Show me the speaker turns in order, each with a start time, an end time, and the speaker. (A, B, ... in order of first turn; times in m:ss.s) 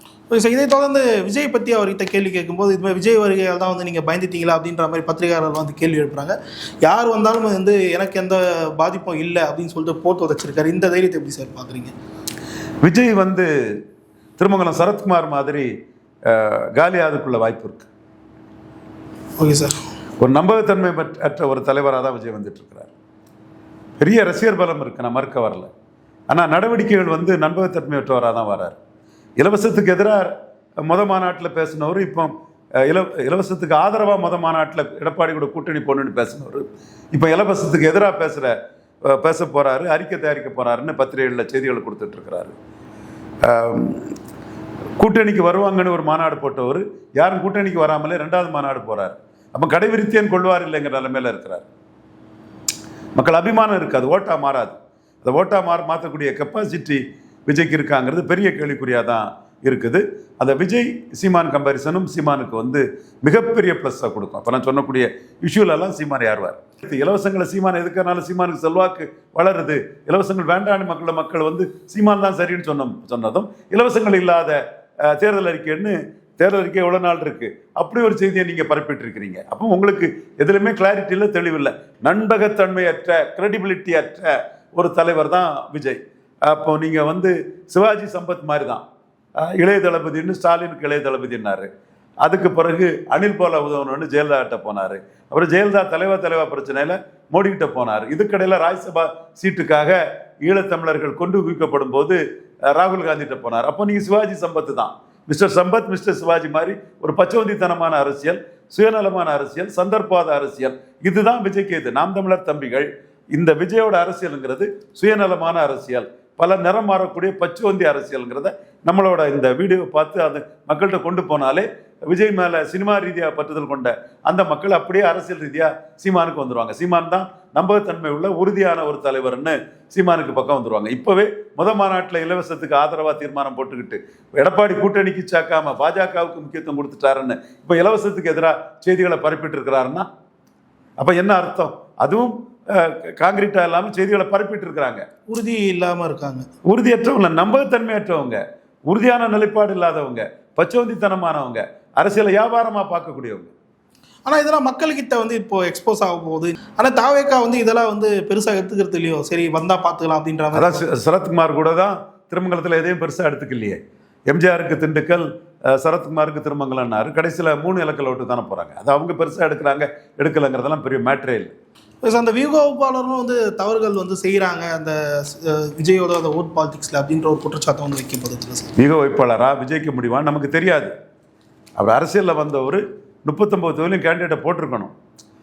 0:00.3-0:11.9 A
0:12.8-0:13.5 B
0:14.4-0:15.7 B
0:16.3-0:17.9 B
0:19.4-0:19.7 A
0:20.2-0:22.9 B
0:24.0-0:25.7 B
0:26.3-0:28.8 B
0:29.4-0:30.3 B
0:30.8-0:38.5 B
0:39.1-0:42.5 B
0:43.4-0:44.1 B
0:45.0-0:51.6 B
0:53.2-1:28.8 B
1:29.4-1:31.7 B
1:32.2-1:42.2 B
1:42.7-2:20.0 B
2:21.0-2:25.0 B
2:25.3-2:26.4 A
2:26.6-2:33.5 B
2:34.2-2:40.9 A
2:40.5-2:51.5 B
2:52.0-2:58.7 A
2:58.8-3:00.9 B
3:01.8-3:04.9 B